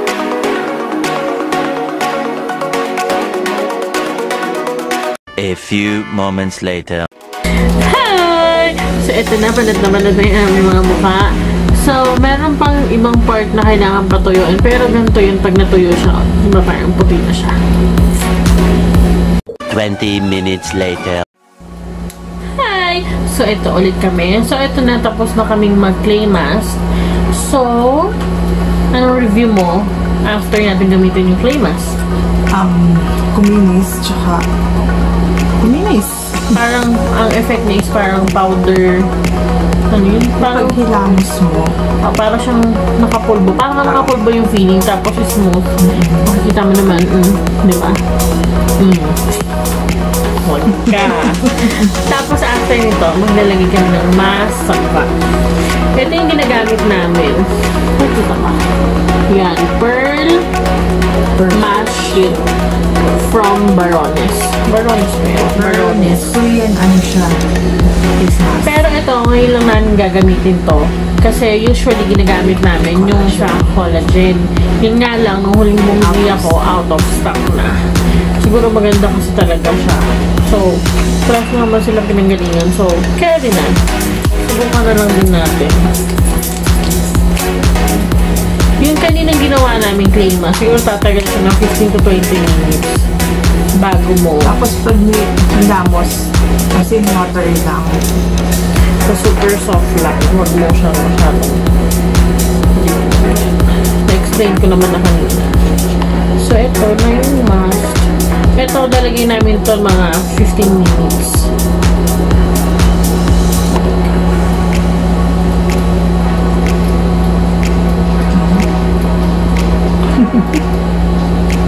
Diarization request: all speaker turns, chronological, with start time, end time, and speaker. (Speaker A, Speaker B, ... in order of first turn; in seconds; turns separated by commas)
Speaker A: 5.4-7.1, Speaker B: 7.7-17.6, Speaker A: 19.7-21.2, Speaker B: 22.6-26.8, Speaker B: 27.3-28.2, Speaker B: 28.9-32.0, Speaker C: 32.5-34.5, Speaker C: 35.6-36.6, Speaker B: 36.5-39.1, Speaker B: 39.9-40.8, Speaker C: 40.4-41.8, Speaker B: 42.0-45.6, Speaker C: 43.8-44.1, Speaker C: 45.8-46.3, Speaker B: 46.2-48.0, Speaker B: 48.8-49.4, Speaker B: 50.4-60.5, Speaker C: 61.4-62.4, Speaker B: 61.5-62.5, Speaker B: 63.1-66.4, Speaker C: 65.5-67.5, Speaker C: 68.2-68.8, Speaker B: 68.6-77.8, Speaker C: 72.9-73.7, Speaker C: 76.0-76.6, Speaker B: 78.4-83.8, Speaker B: 84.5-85.9, Speaker B: 88.8-93.0, Speaker B: 93.8-94.6, Speaker C: 94.4-98.2, Speaker B: 99.0-101.7, Speaker B: 102.7-105.6, Speaker B: 106.4-111.5, Speaker C: 118.3-118.7, Speaker C: 120.2-120.4